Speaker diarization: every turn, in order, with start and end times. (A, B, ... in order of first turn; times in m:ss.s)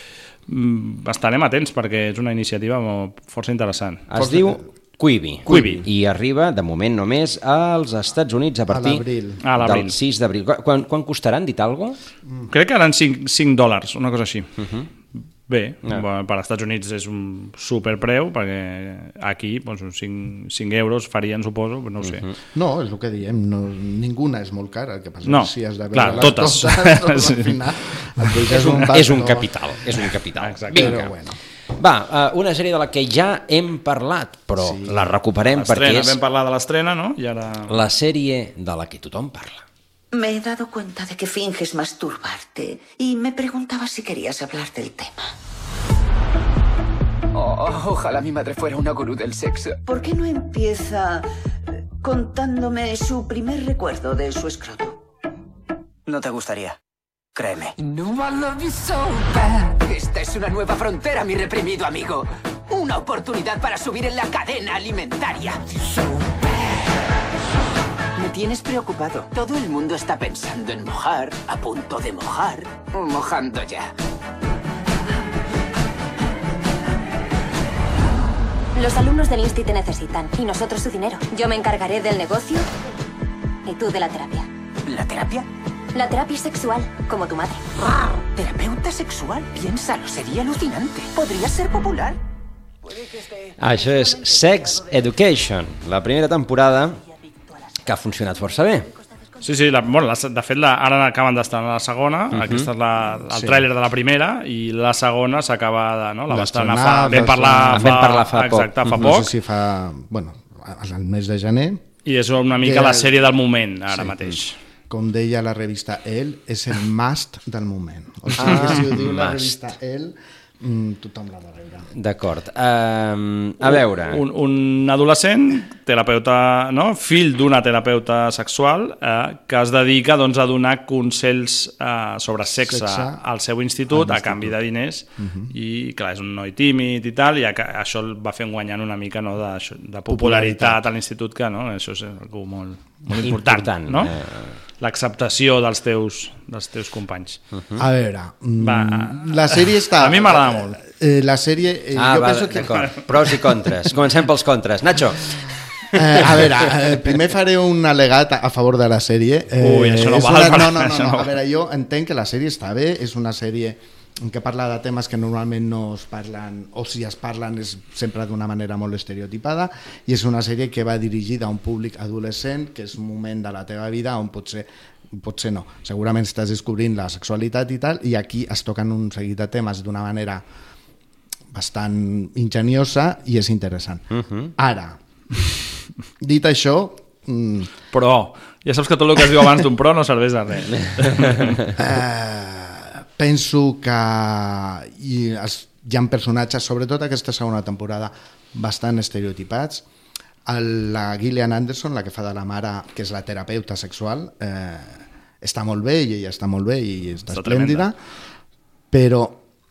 0:00.5-0:04.1 A
0:04.1-0:09.0 B
0:04.2-0:04.6 C
0:05.4-0:05.8 C
0:05.5-0:05.8 A
0:08.7-0:09.4 C
0:09.4-0:09.9 A
0:09.6-0:12.0 B
0:12.5-0:14.5 A
0:14.6-0:14.9 B
0:15.5-0:22.2 A
0:22.0-0:22.3 B
0:22.5-0:29.5 C
0:25.2-0:27.5 A
0:28.7-0:31.1 B
0:30.4-0:30.9 A
0:30.7-0:31.4 C
0:31.8-0:36.2 B
0:34.6-0:35.0 C
0:35.5-0:37.7 A
0:37.7-0:39.6 B
0:40.1-0:45.2 D
0:47.3-0:49.8 E
0:49.8-0:51.2 D
0:52.0-0:55.0 D
0:56.1-0:56.7 E
0:57.4-1:06.4 E
1:08.2-1:13.9 E
1:18.8-1:22.7 F
1:23.7-1:24.4 F
1:24.8-1:25.4 E
1:25.9-1:27.7 F
1:28.3-1:32.2 E
1:32.8-1:33.3 E
1:33.6-1:37.0 B
1:37.8-1:38.9 B
1:39.4-1:49.3 A
1:42.3-1:42.7 B
1:43.1-1:43.7 C
1:46.3-1:47.9 C
1:47.7-1:49.1 B
1:48.9-1:51.8 C
1:52.0-1:54.6 A
1:52.6-1:53.2 C
1:54.9-2:01.9 C
1:58.4-1:59.6 B
2:01.9-2:04.2 B
2:03.7-2:24.1 A
2:12.6-2:13.2 C
2:13.9-2:14.6 C
2:15.2-2:15.5 C
2:20.1-2:20.8 C
2:23.2-2:24.6 B
2:24.8-2:27.4 A
2:27.8-2:33.0 C
2:28.6-2:30.8 A
2:31.9-2:35.6 B
2:35.9-3:00.4 C
2:39.6-2:41.3 A
3:01.5-3:05.0 C
3:04.1-3:04.5 B
3:06.2-3:07.7 C
3:07.9-3:11.6 A
3:11.8-3:19.8 C
3:20.4-3:28.0 C
3:27.3-3:27.9 A
3:28.9-3:29.4 C